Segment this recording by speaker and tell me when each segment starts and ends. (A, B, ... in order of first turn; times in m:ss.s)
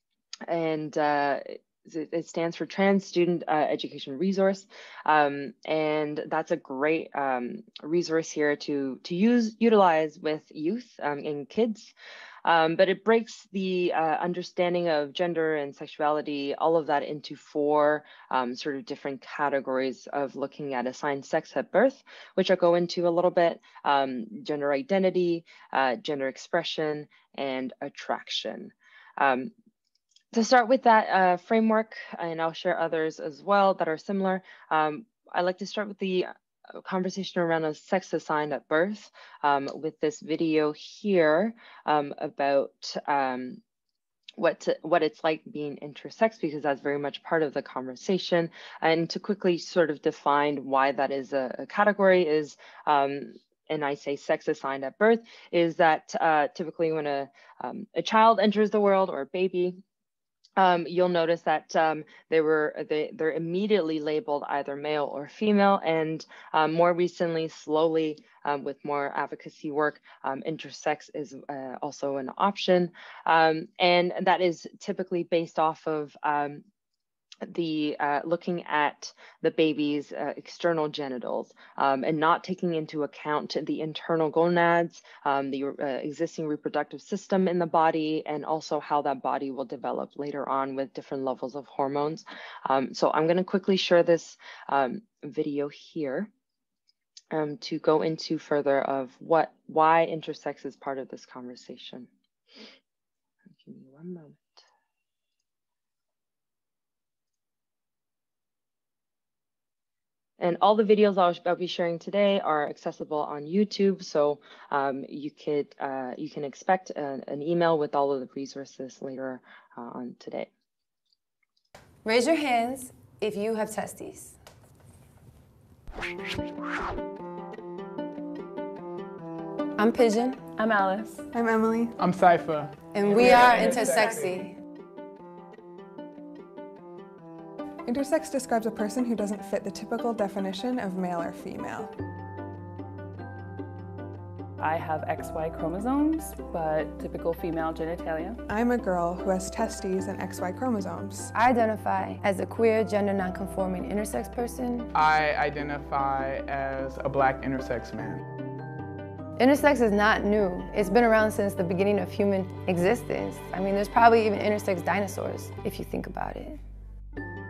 0:00.5-0:11.9 A
0:12.4-0:29.5 A
0:30.3-0:43.6 A
0:44.4-0:59.8 A
1:00.6-1:16.6 A
1:17.4-1:36.3 A
1:37.3-1:42.1 A
1:43.6-1:44.6 A
1:50.4-2:00.5 A
2:02.0-2:04.4 B
2:09.8-2:10.6 B
2:10.6-2:11.2 C
2:11.3-2:12.0 D
2:12.0-2:14.2 E
2:12.9-2:14.6 B
2:17.8-2:21.9 D
2:24.6-2:28.4 C
2:28.5-2:31.3 D
2:31.3-2:34.9 B
2:34.9-2:38.2 E
2:39.4-2:46.6 B